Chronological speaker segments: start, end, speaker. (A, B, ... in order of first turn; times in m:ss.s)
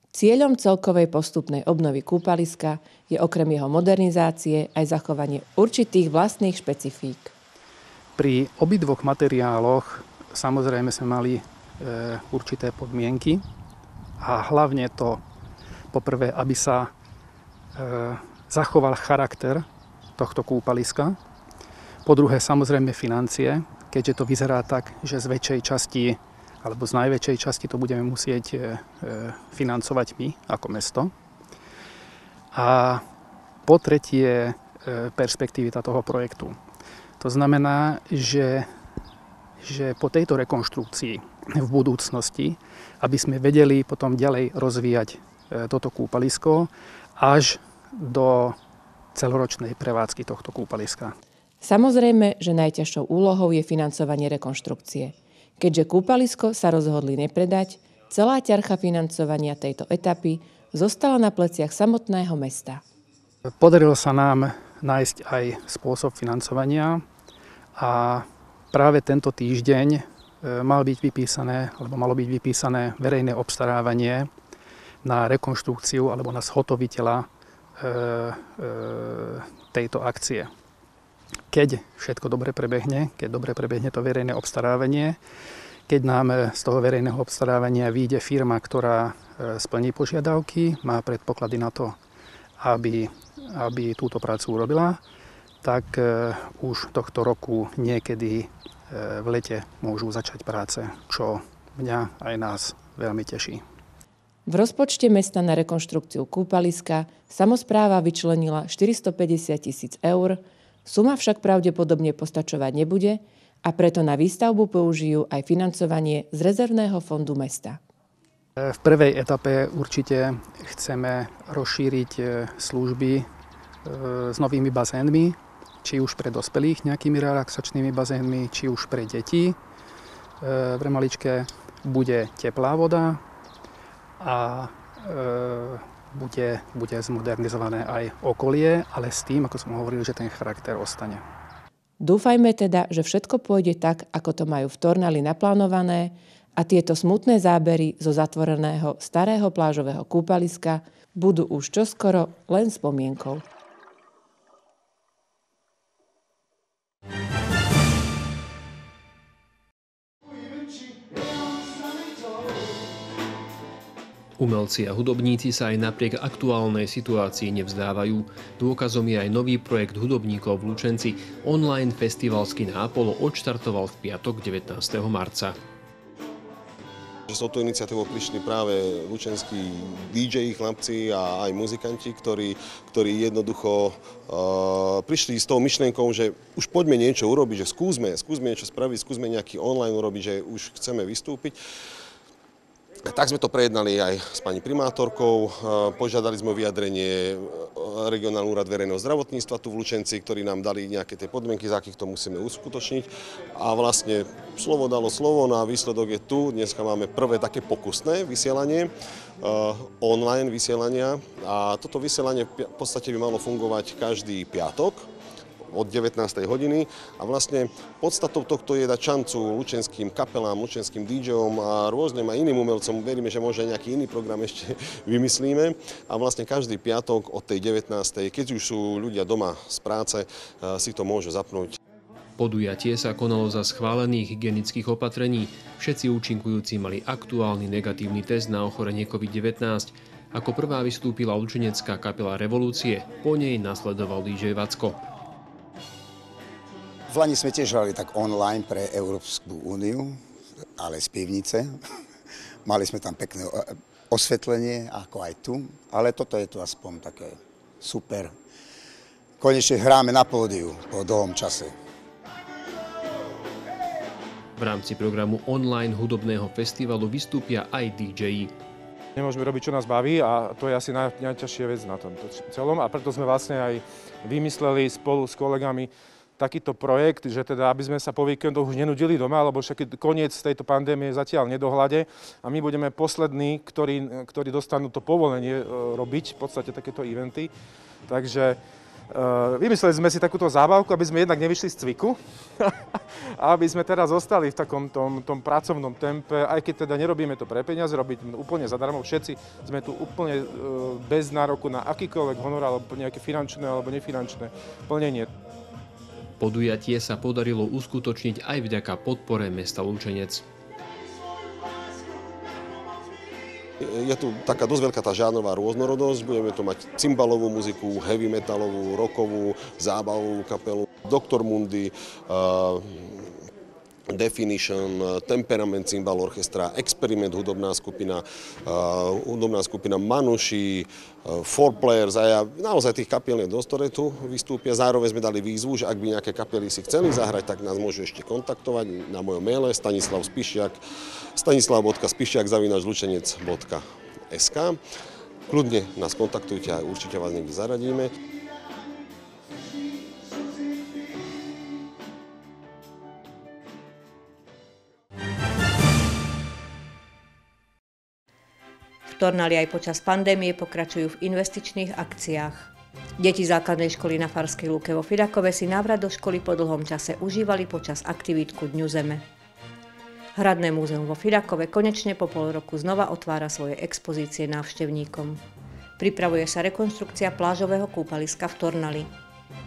0:00.1-0:07.3 A
0:08.2-0:13.4 B
0:14.2-0:15.2 B
0:15.9-0:16.9 B
0:17.7-0:19.6 B
0:20.2-0:21.2 B
0:22.0-0:31.1 B
0:32.5-0:33.0 B
0:33.6-0:36.6 B
0:37.2-0:38.7 B
0:39.6-0:48.6 B
0:49.1-0:51.2 B
0:51.6-1:02.8 A
1:03.6-1:07.0 B
1:07.8-1:14.3 B
1:15.0-1:20.5 B
1:21.5-1:25.2 B
1:25.9-1:32.0 B
1:32.6-1:35.0 B
1:35.6-1:43.6 B
1:44.5-1:57.8 A
1:58.6-2:03.3 B
2:03.8-2:09.6 B
2:10.4-2:13.2 B
2:14.2-2:21.2 B
2:22.0-2:33.4 A
2:44.4-2:55.6 C
2:57.3-3:11.6 D
3:13.0-3:35.1 D
3:35.7-3:51.8 D
3:52.4-4:05.0 C
4:07.1-4:10.2 E
4:10.8-4:11.8 E
4:12.6-4:18.3 E
4:19.4-4:21.7 E
4:24.6-4:28.5 C
4:29.2-4:47.5 F
4:48.1-4:48.6 F
4:49.1-4:52.7 F
4:53.4-5:05.3 F
5:06.4-5:10.4 C
5:13.8-5:23.4 D
5:24.1-5:40.8 D
5:41.4-5:44.8 D
5:45.5-5:48.1 D
5:59.1-6:09.2 G
6:10.4-6:15.4 G
6:16.0-6:19.1 G